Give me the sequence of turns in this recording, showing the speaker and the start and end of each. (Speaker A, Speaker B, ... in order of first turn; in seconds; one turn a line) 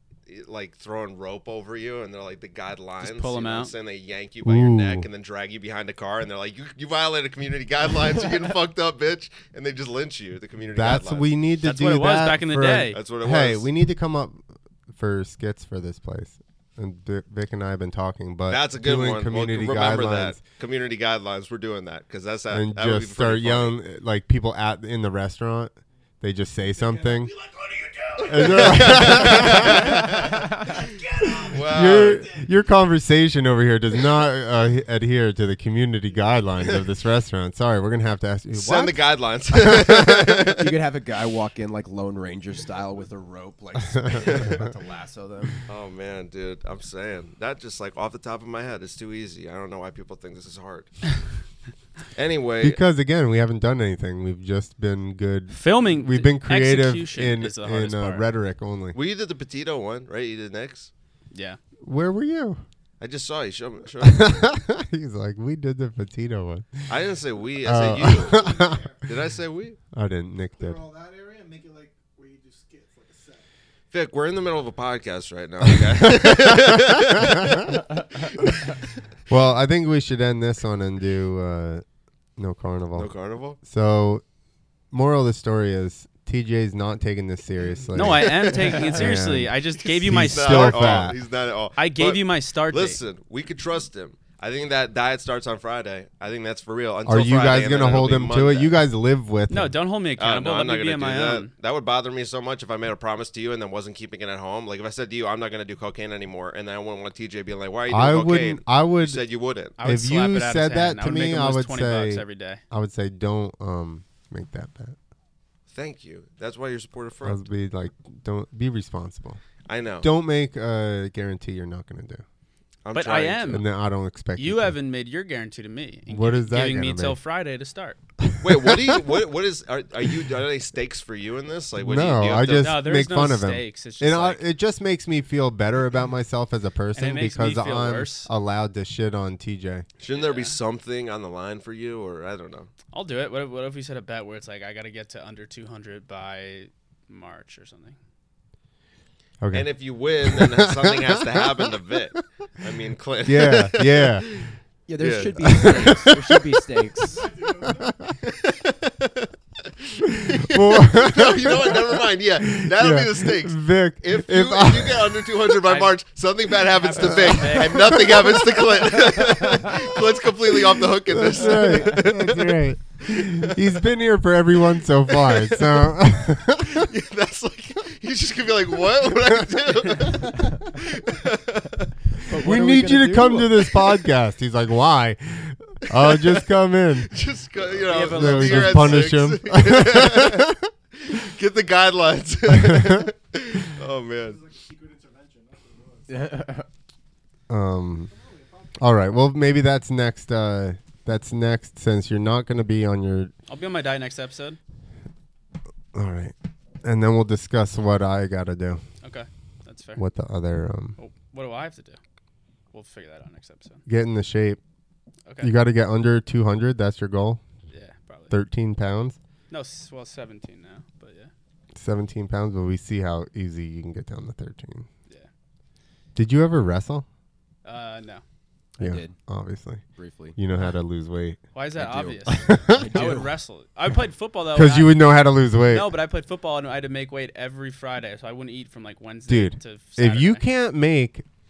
Speaker A: 0.3-11.3
Speaker B: 3.0-3.7
Speaker C: 4.4-5.0
Speaker C: 10.7-20.4
Speaker B: 11.6-13.0
Speaker A: 12.9-13.7
Speaker A: 18.5-23.8
Speaker C: 22.5-27.3
Speaker D: 26.8-30.2
Speaker A: 28.2-32.3
Speaker C: 28.2-30.2
Speaker D: 31.0-31.4
Speaker C: 31.4-40.5
Speaker A: 38.5-40.6
Speaker E: 40.5-45.6
Speaker A: 44.2-44.6
Speaker A: 45.7-50.9
Speaker A: 52.1-52.8
Speaker C: 52.6-59.0
Speaker B: 55.5-58.2
Speaker A: 58.9-60.9
Speaker B: 61.3-61.6
Speaker C: 61.8-62.6
Speaker A: 63.0-64.5
Speaker C: 64.0-66.9
Speaker A: 66.9-68.5
Speaker C: 67.6-68.9
Speaker D: 68.1-69.0
Speaker A: 69.0-69.8
Speaker C: 69.9-70.8
Speaker D: 70.6-73.4
Speaker A: 73.9-78.8
Speaker C: 75.9-77.7
Speaker C: 79.3-81.8
Speaker C: 82.4-83.1
Speaker A: 82.9-83.6
Speaker C: 83.6-84.2
Speaker C: 84.9-91.2
Speaker B: 87.9-91.1
Speaker A: 88.0-89.0
Speaker A: 89.8-98.8
Speaker B: 91.8-93.0
Speaker C: 97.0-99.7
Speaker B: 99.5-101.5
Speaker A: 100.2-109.8
Speaker C: 107.9-109.2
Speaker B: 109.8-112.6
Speaker C: 109.8-115.0
Speaker A: 115.7-117.4
Speaker C: 117.2-119.4
Speaker A: 119.7-120.1
Speaker C: 120.0-122.2
Speaker A: 122.8-123.6
Speaker B: 122.9-123.6
Speaker C: 123.5-124.7
Speaker B: 124.3-128.0
Speaker C: 126.1-127.2
Speaker C: 128.2-129.0
Speaker A: 128.4-132.8
Speaker C: 131.8-139.8
Speaker B: 132.6-134.4
Speaker B: 136.9-138.3
Speaker A: 140.0-142.7
Speaker B: 140.1-140.5
Speaker B: 142.9-148.0
Speaker C: 149.4-151.7
Speaker A: 149.5-155.9
Speaker C: 153.2-154.4
Speaker E: 154.9-157.3
Speaker C: 155.4-156.6
Speaker D: 157.1-158.0
Speaker C: 157.6-158.1
Speaker A: 158.2-159.3
Speaker A: 159.9-173.6
Speaker C: 160.4-165.4
Speaker B: 165.7-165.9
Speaker B: 166.7-168.0
Speaker C: 167.0-168.8
Speaker C: 171.1-176.9
Speaker A: 175.1-175.9
Speaker A: 176.6-181.9
Speaker C: 179.2-180.3
Speaker E: 182.2-183.7
Speaker C: 182.3-187.1
Speaker A: 186.0-186.4
Speaker A: 187.1-190.5
Speaker C: 187.8-190.7
Speaker B: 187.9-189.1
Speaker A: 191.0-194.4
Speaker C: 192.5-193.1
Speaker D: 194.2-196.3
Speaker E: 196.1-196.7
Speaker C: 197.5-198.1
Speaker D: 198.1-198.8
Speaker C: 198.8-203.3
Speaker B: 203.5-204.6
Speaker C: 205.9-208.8
Speaker B: 209.0-210.0
Speaker C: 209.9-211.0
Speaker B: 211.0-212.0
Speaker B: 212.7-213.8
Speaker C: 213.9-214.6
Speaker B: 215.3-215.5
Speaker C: 215.4-217.4
Speaker B: 217.7-218.3
Speaker C: 218.3-219.2
Speaker B: 219.5-221.3
Speaker C: 221.7-224.9
Speaker C: 226.2-227.1
Speaker B: 227.6-228.2
Speaker E: 228.8-229.2
Speaker C: 228.8-229.8
Speaker E: 229.9-230.4
Speaker C: 230.3-231.4
Speaker B: 231.5-235.0
Speaker E: 231.8-233.3
Speaker C: 232.3-233.2
Speaker C: 234.5-235.9
Speaker B: 235.7-240.4
Speaker C: 239.3-241.2